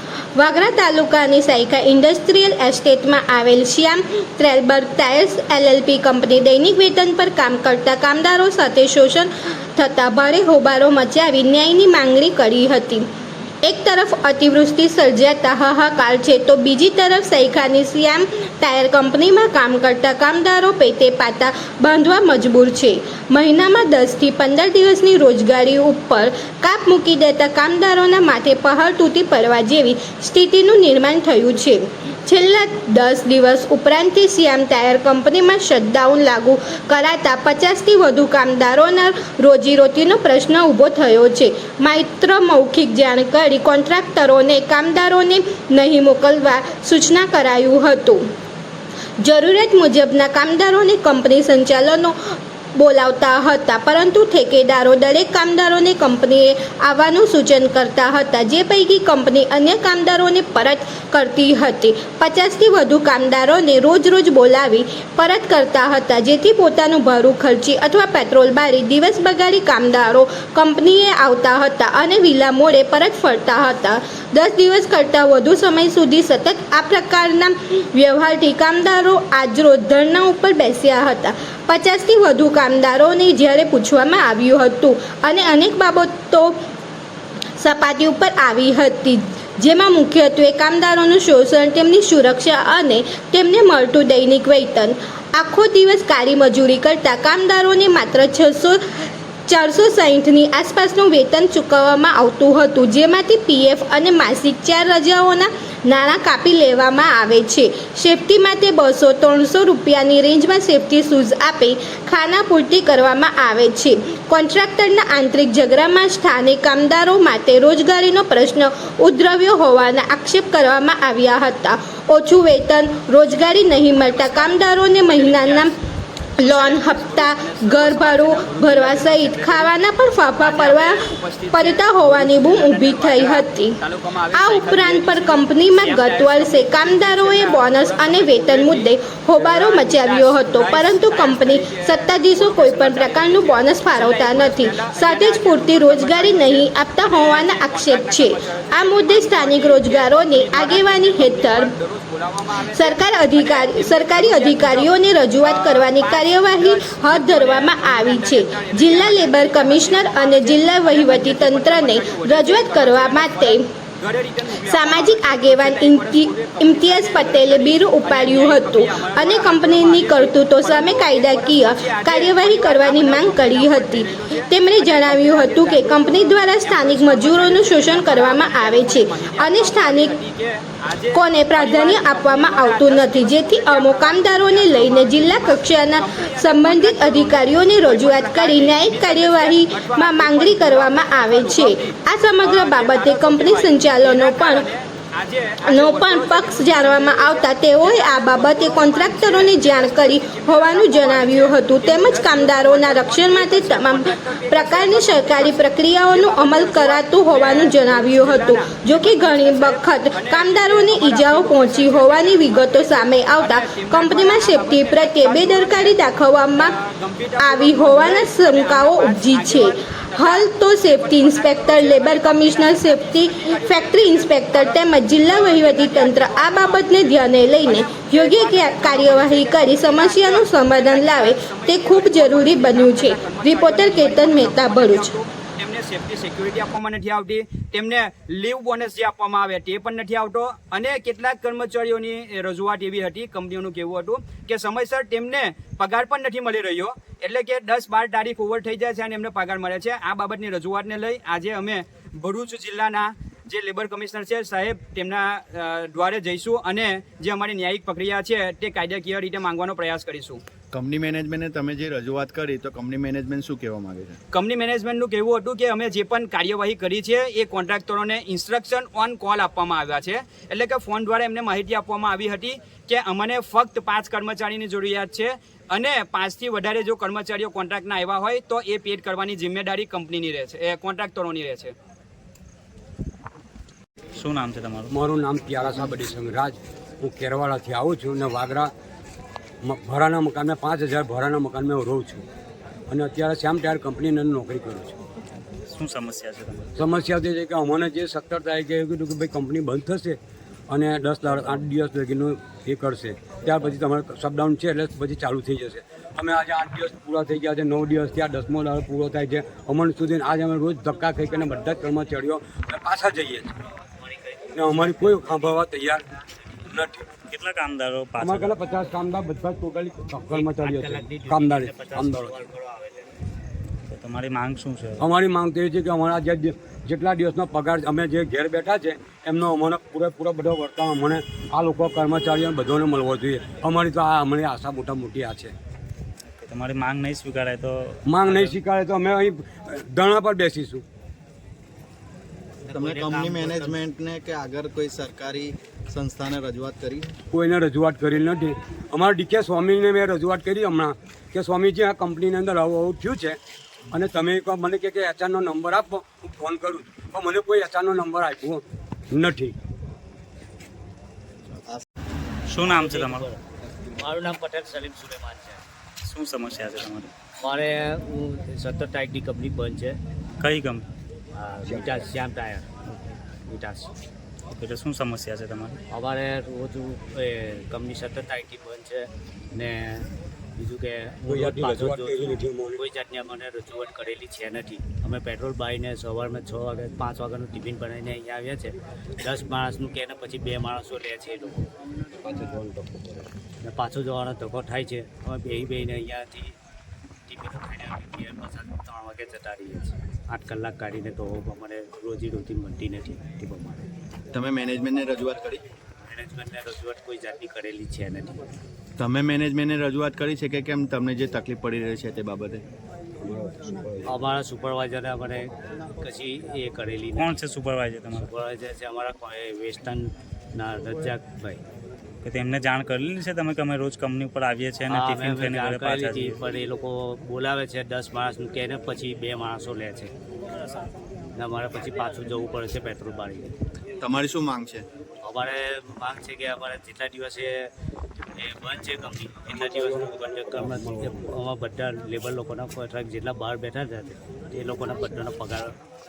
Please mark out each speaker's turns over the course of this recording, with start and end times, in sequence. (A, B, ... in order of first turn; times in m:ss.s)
0:00.4-0:13.1 A
0:13.6-0:48.2 A
0:49.2-1:26.6 A
1:27.6-1:38.8 A
1:39.5-2:05.7 A
2:03.9-2:05.8 B
2:06.4-2:13.8 A
2:06.4-2:09.7 B
2:10.4-4:20.4 B
2:14.3-2:31.7 A
2:32.7-2:43.6 A
2:44.6-3:00.1 A
3:01.1-3:14.7 A
3:15.6-3:36.7 A
3:37.4-3:55.1 A
4:20.7-4:24.2 C
4:24.3-4:41.7 B
4:44.2-4:44.9 D
4:44.9-4:48.7 E
4:49.6-4:52.2 E
4:52.9-4:55.0 E
4:55.7-4:56.7 D
4:56.8-5:00.2 E
5:00.7-5:13.5 E
5:14.0-5:15.7 F
5:14.5-5:16.0 E
5:16.7-5:17.1 E
5:17.2-5:18.6 D
5:18.2-5:22.3 E
5:20.3-5:23.1 F
5:23.9-5:25.0 D
5:25.0-5:35.5 E
5:36.4-5:38.6 D
5:38.1-5:40.8 E
5:42.7-5:43.8 F
5:42.7-5:47.1 C
5:47.3-5:53.4 E
5:53.9-5:59.6 E
6:02.5-6:03.2 D
6:02.6-6:03.4 F
6:04.0-6:05.6 F
6:06.0-6:07.1 D
6:07.4-6:10.0 F
6:10.4-6:10.8 D
6:11.3-6:12.9 F
6:11.7-6:12.0 E
6:13.4-6:13.9 F
6:14.5-6:15.8 D
6:15.9-6:31.7 F
6:21.3-6:22.8 E
6:32.2-6:33.3 E
6:33.6-6:36.6 F
6:37.3-6:43.9 F
6:44.3-6:45.6 C
6:46.0-6:48.4 F
6:49.0-6:52.6 C
6:53.2-6:54.1 E
6:54.0-6:57.4 F
6:57.2-6:58.3 D
6:58.1-7:01.6 F
7:02.2-7:06.4 D
7:04.9-7:10.1 F
7:11.3-7:13.5 F
7:14.0-7:14.8 C
7:15.2-7:17.6 F
7:18.2-7:25.7 F
7:19.5-7:21.3 E